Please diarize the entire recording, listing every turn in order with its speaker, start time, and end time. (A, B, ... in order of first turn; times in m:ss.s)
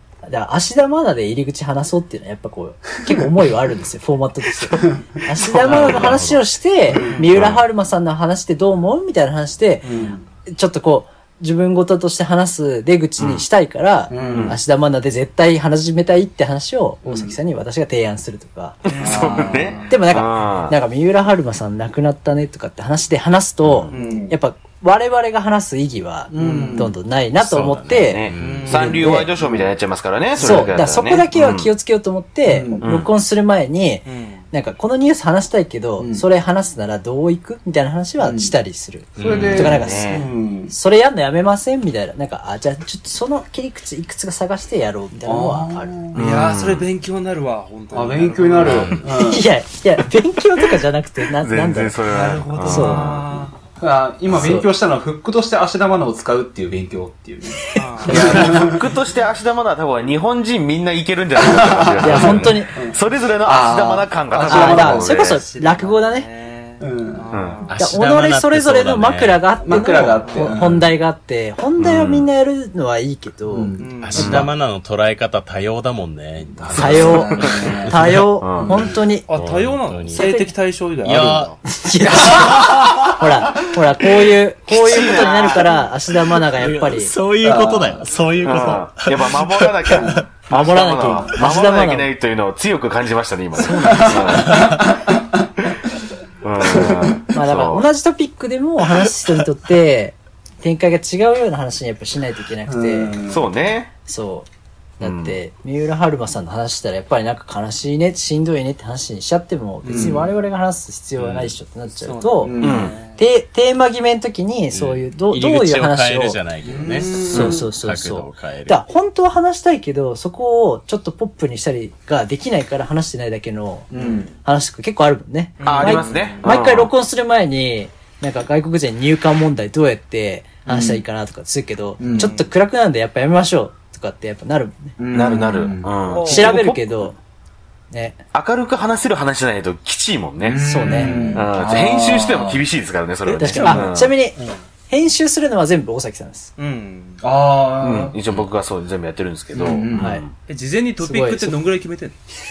0:00.2-0:09.9 A
0:05.6-0:06.4 B
0:05.7-0:06.2 C
0:06.9-0:07.2 D
0:07.0-0:07.3 E
0:07.4-0:07.6 C
0:09.8-0:10.2 D
0:10.5-0:18.8 A
0:13.2-0:13.4 C
0:14.1-0:14.6 D
0:14.3-0:14.6 C
0:17.0-0:17.4 D
0:18.9-0:20.8 C
0:18.9-0:20.0 E
0:19.0-0:19.9 D
0:19.9-0:29.3 A
0:23.9-0:24.3 E
0:23.9-0:24.3 D
0:26.3-0:26.9 D
0:26.3-0:26.9 E
0:27.4-0:28.8 B
0:28.1-0:31.7 C
0:28.4-0:29.1 E
0:29.4-0:29.7 D
0:30.4-0:45.9 A
0:32.5-0:32.9 D
0:32.8-0:33.1 C
0:34.0-0:34.5 E
0:36.0-0:36.2 D
0:38.2-0:38.6 D
0:39.2-0:39.7 B
0:39.2-0:40.7 D
0:39.2-0:40.3 C
0:45.2-0:46.2 D
0:46.1-0:48.9 E
0:46.2-0:46.9 C
0:47.9-0:49.5 D
0:48.6-0:49.0 B
0:48.7-0:52.0 A
0:51.4-0:53.2 C
0:52.1-0:53.5 E
0:52.6-0:53.2 A
0:53.8-0:58.9 D
0:54.3-0:54.7 A
0:57.7-0:58.7 E
0:58.1-0:58.6 A
0:58.1-1:05.4 C
1:01.4-1:05.2 D
1:02.0-1:02.7 A
1:04.5-1:06.3 A
1:04.6-1:07.8 E
1:06.8-1:07.3 D
1:07.3-1:07.7 C
1:07.7-1:09.6 B
1:07.8-1:14.5 A
1:09.6-1:10.9 D
1:10.2-1:10.6 E
1:11.8-1:12.3 C
1:13.5-1:14.2 D
1:13.8-1:14.4 E
1:14.0-1:18.3 B
1:16.6-1:18.0 D
1:16.7-1:19.3 A
1:17.4-1:17.7 C
1:18.4-1:18.9 C
1:18.6-1:19.0 D
1:19.3-1:21.6 E
1:19.3-1:20.3 B
1:20.1-1:20.5 A
1:21.0-1:21.6 B
1:21.7-1:27.1 A
1:22.1-1:23.0 C
1:22.2-1:22.7 B
1:24.7-1:25.9 C
1:26.4-1:30.3 B
1:27.4-1:28.0 D
1:28.4-1:34.7 C
1:29.9-1:30.2 D
1:30.5-1:32.1 A
1:33.6-1:34.6 A
1:33.8-1:35.5 D
1:34.5-1:34.8 B
1:36.4-1:37.8 C
1:36.6-1:37.2 D
1:37.3-1:43.2 A
1:42.7-1:43.5 D
1:43.3-1:43.9 C
1:44.0-1:44.5 A
1:45.0-1:52.6 A
1:45.0-1:45.4 C
1:49.8-1:50.3 D
1:49.9-1:50.1 E
1:52.0-1:53.2 E
1:52.4-1:53.0 D
1:52.6-1:53.0 C
1:53.2-1:56.4 A
1:54.7-1:58.8 B
1:56.6-1:57.7 D
1:56.9-1:57.3 E
1:57.3-2:15.0 A
2:03.9-2:04.3 D
2:04.0-2:04.3 E
2:05.6-2:06.5 E
2:05.6-2:06.9 C
2:10.7-2:11.0 D
2:12.0-2:12.4 D
2:12.2-2:12.4 E
2:15.0-2:15.9 D
2:15.1-2:17.1 C
2:16.1-2:16.6 E
2:16.2-2:17.2 A
2:17.9-2:18.2 A
2:18.3-2:24.1 C
2:20.4-2:22.6 D
2:20.6-2:21.4 A
2:20.9-2:21.4 E
2:23.3-2:24.6 E
2:23.4-2:24.4 A
2:24.9-2:26.5 A
2:26.6-2:27.3 E
2:27.2-2:28.2 D
2:27.8-2:30.3 C
2:29.5-2:30.2 D
2:30.0-2:30.2 A
2:30.5-2:32.2 E
2:31.0-2:31.6 A